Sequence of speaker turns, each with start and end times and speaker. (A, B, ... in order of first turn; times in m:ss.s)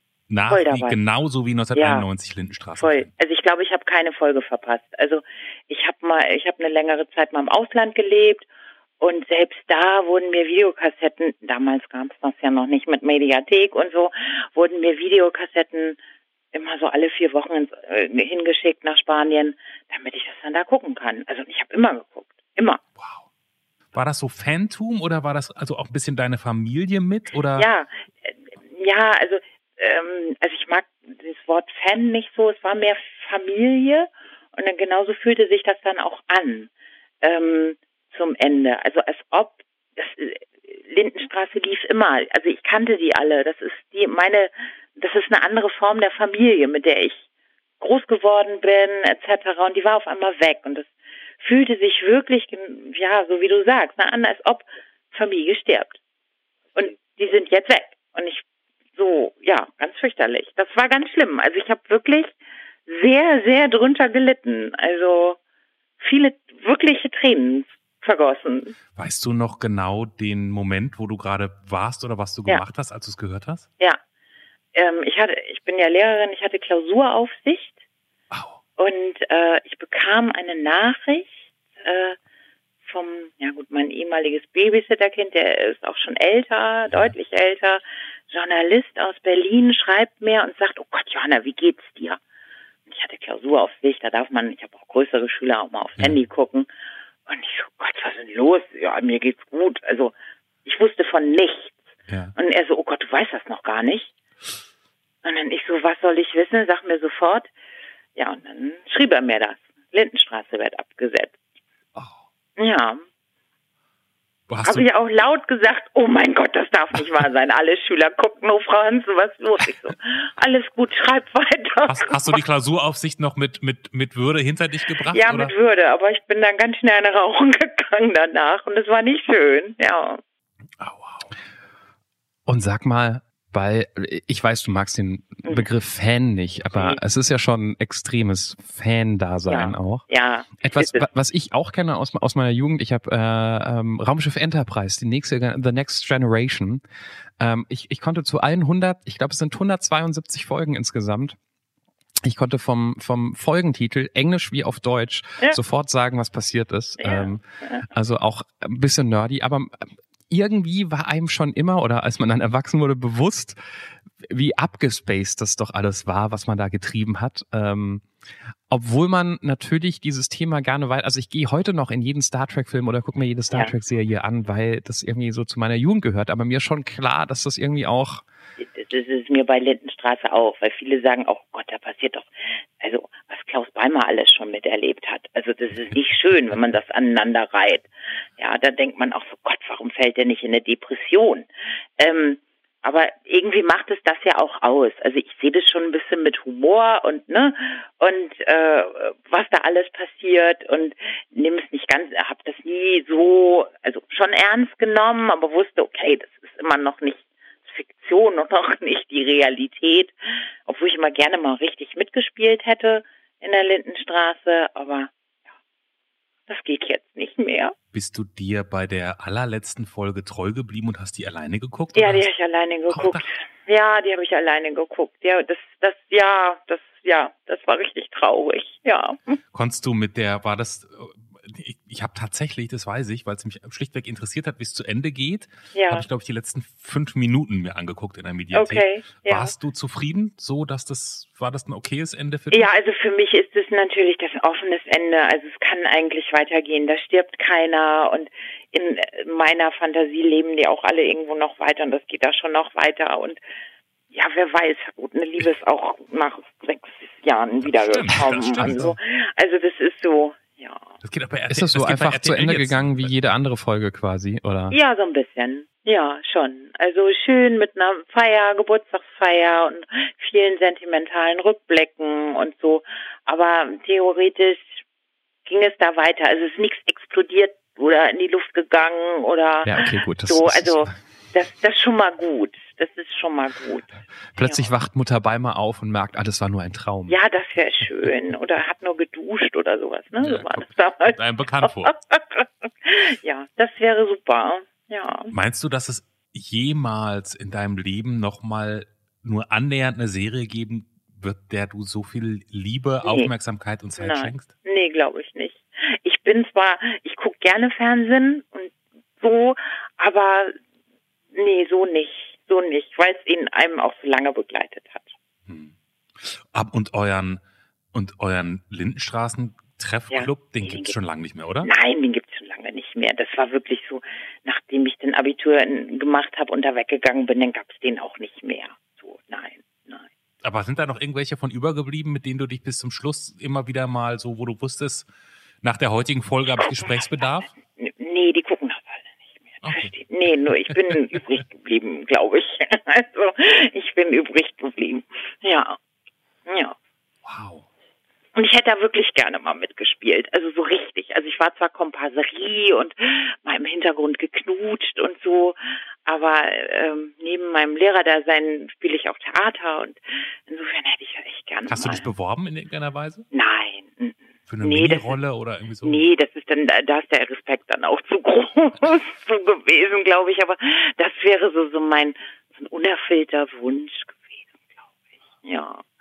0:00.3-0:03.1 A
0:00.5-0:01.0 B
0:01.8-0:02.1 B
0:02.8-0:08.5 B
0:09.0-0:16.0 B
0:16.5-0:22.8 B
0:23.9-0:27.7 A
0:27.6-0:36.7 B
0:37.2-0:47.2 B
0:47.8-0:56.0 B
0:56.8-0:58.4 B
0:59.0-1:02.4 B
1:02.9-1:05.4 B
1:06.0-1:08.8 B
1:09.0-1:13.7 A
1:14.8-1:17.8 B
1:18.3-1:18.6 A
1:18.8-1:22.2 B
1:22.8-1:32.2 B
1:32.9-1:36.7 B
1:37.3-1:40.1 B
1:40.6-1:41.8 B
1:42.1-1:42.4 A
1:42.4-1:44.1 B
1:45.2-1:47.5 B
1:48.2-1:51.4 B
1:52.6-1:53.0 B
1:54.5-1:54.9 A
1:54.6-2:02.4 B
2:01.9-2:05.5 A
2:05.1-2:10.2 B
2:10.8-2:11.3 A
2:12.5-2:20.1 C
2:16.8-2:17.0 B
2:19.5-2:21.1 B
2:20.6-2:26.8 C
2:27.4-2:31.4 C
2:32.2-2:43.6 C
2:37.0-2:37.9 B
2:44.2-2:48.0 C
2:48.7-2:58.2 C
2:58.6-3:02.3 B
3:02.8-3:11.5 B
3:12.0-3:30.1 B
3:30.7-3:35.1 B
3:36.5-3:37.8 B
3:37.9-3:42.3 A
3:41.9-3:49.4 B
3:42.9-3:43.3 A
3:49.5-4:02.7 A
3:55.7-3:56.0 B
3:58.5-3:59.5 B
4:02.5-4:13.4 B
4:14.1-4:20.9 B
4:17.6-4:19.0 A
4:21.0-4:23.2 A
4:21.5-4:24.8 C
4:24.7-4:34.8 B
4:35.5-4:43.9 B
4:39.6-4:40.9 C
4:44.4-4:47.2 C
4:44.4-4:44.7 B
4:47.1-4:55.3 B
4:50.2-4:51.9 A
4:55.3-5:04.5 A
5:03.0-5:03.3 B
5:04.0-5:10.6 B
5:11.3-5:15.1 B
5:15.5-5:17.4 A
5:17.9-5:21.7 A
5:20.1-5:20.9 B
5:21.6-5:30.1 B
5:30.4-5:35.1 A
5:35.6-5:37.5 A
5:37.8-5:45.8 B
5:39.6-5:39.9 A
5:46.5-5:46.8 B
5:47.2-5:47.6 A
5:48.4-6:02.0 B
6:01.7-6:03.2 A
6:03.3-6:05.2 B
6:04.5-6:06.1 A
6:05.8-6:14.4 B
6:15.4-6:15.9 B